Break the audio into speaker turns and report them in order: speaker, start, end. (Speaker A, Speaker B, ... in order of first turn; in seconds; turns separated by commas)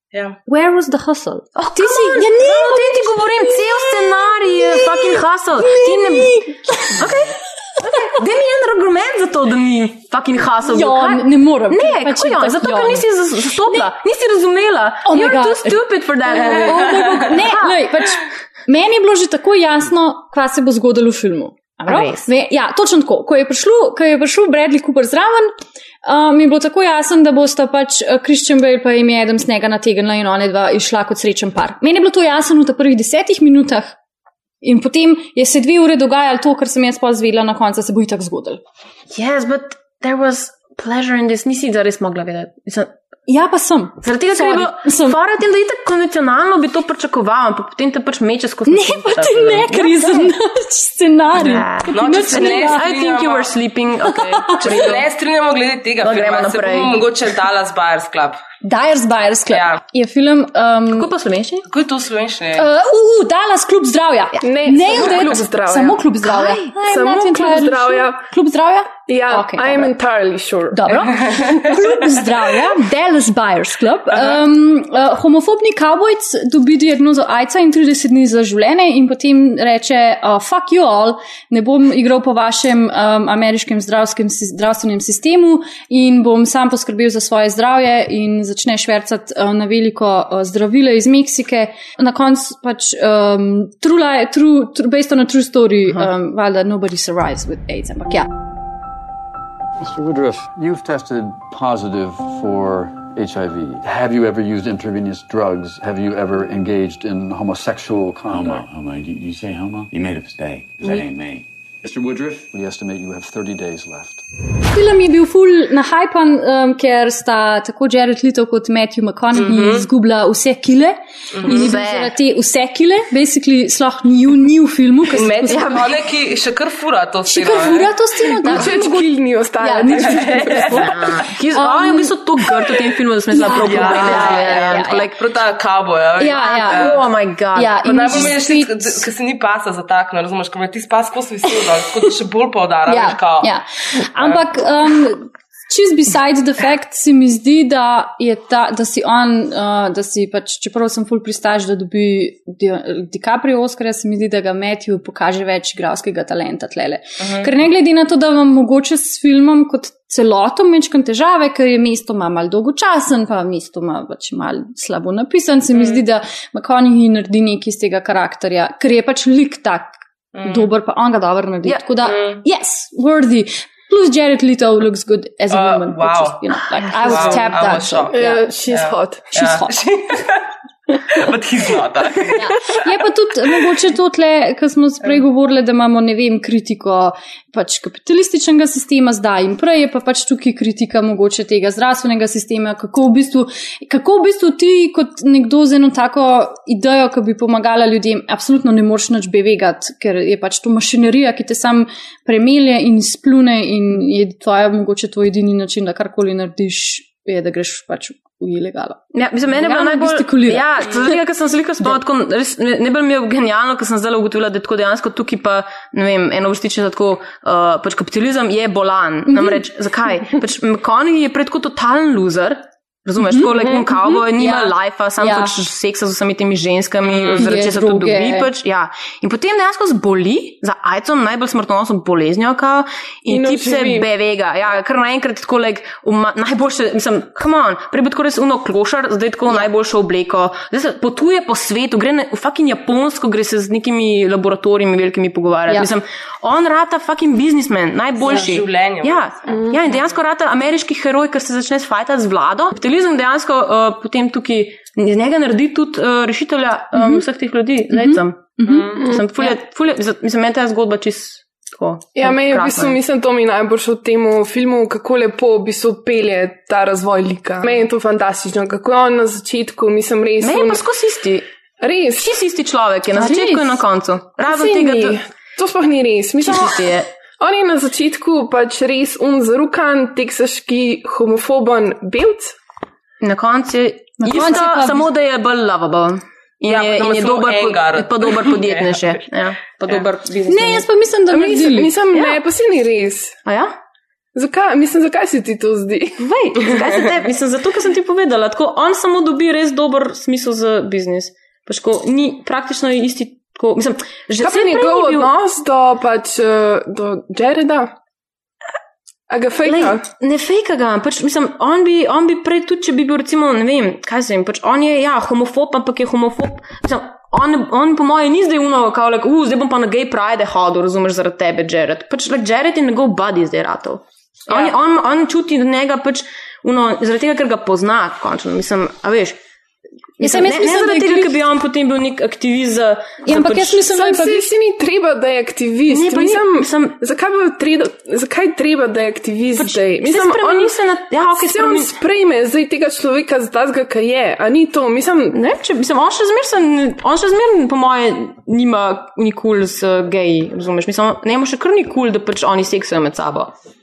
Speaker A: 0.5-7.0, Speaker B: 1.7-17.8, Speaker A: 10.7-13.9, Speaker A: 15.0-15.8, Speaker C: 16.3-17.1, Speaker A: 16.4-33.9, Speaker B: 21.8-22.3, Speaker A: 34.6-38.6, Speaker B: 39.1-42.9, Speaker A: 43.3-45.2, Speaker B: 44.0-50.3, Speaker A: 48.7-52.8, Speaker B: 51.3-55.0, Speaker C: 51.9-53.5, Speaker A: 54.1-54.7, Speaker C: 54.6-58.4, Speaker B: 56.0-57.0, Speaker A: 58.6-61.1, Speaker C: 59.5-59.8, Speaker B: 60.9-61.6, Speaker C: 61.7-62.7, Speaker A: 62.5-69.9, Speaker B: 64.4-65.1, Speaker D: 64.4-66.0, Speaker B: 66.2-66.6, Speaker D: 66.8-68.2, Speaker D: 69.1-71.6, Speaker A: 70.7-98.3, Speaker E: 99.8-108.6, Speaker F: 108.3-111.5, Speaker E: 110.8-111.1, Speaker E: 111.8-114.2, Speaker A: 114.7-125.9, Speaker C: 119.3-119.9, Speaker C: 121.3-121.7, Speaker B: 121.4-122.1, Speaker C: 125.1-127.9, Speaker A: 127.3-129.1, Speaker D: 128.4-131.0, Speaker A: 129.6-132.1, Speaker C: 130.1-130.8, Speaker B: 130.8-135.2, Speaker A: 133.3-135.1, Speaker C: 133.6-137.0, Speaker A: 136.2-137.0, Speaker B: 136.3-138.3, Speaker A: 137.5-139.0, Speaker C: 137.8-143.5, Speaker A: 142.9-178.5, Speaker C: 165.7-166.0, Speaker C: 170.3-170.7, Speaker C: 172.0-172.4, Speaker C: 175.5-178.1, Speaker D: 178.1-179.2, Speaker C: 178.7-180.4, Speaker A: 179.3-179.7, Speaker C: 181.1-182.8, Speaker A: 182.4-211.1, Speaker B: 209.1-263.0, Speaker A: 219.3-219.6, Speaker A: 223.2-225.5, Speaker C: 227.0-227.4, Speaker A: 227.4-228.5, Speaker D: 233.3-234.1, Speaker C: 248.2-249.2, Speaker D: 249.5-249.8, Speaker A: 256.9-257.2, Speaker A: 257.9-259.5, Speaker D: 262.1-270.8, Speaker B: 270.4-271.4, Speaker D: 271.8-272.3, Speaker B: 272.2-275.2, Speaker A: 273.2-273.8, Speaker D: 274.4-282.6, Speaker B: 276.4-277.1, Speaker B: 283.2-290.9, Speaker A: 284.2-285.1, Speaker C: 286.6-289.2, Speaker A: 290.5-291.9, Speaker D: 291.3-293.4, Speaker B: 292.1-292.4, Speaker B: 293.4-293.7, Speaker D: 294.3-296.2, Speaker B: 296.2-305.3, Speaker D: 304.4-307.9, Speaker D: 309.3-310.0, Speaker B: 309.6-329.4, Speaker B: 330.2-333.8, Speaker A: 330.2-331.3, Speaker A: 333.2-334.5, Speaker D: 333.8-340.7, Speaker B: 335.9-337.0, Speaker B: 339.6-341.9, Speaker D: 341.3-345.4, Speaker B: 345.3-353.5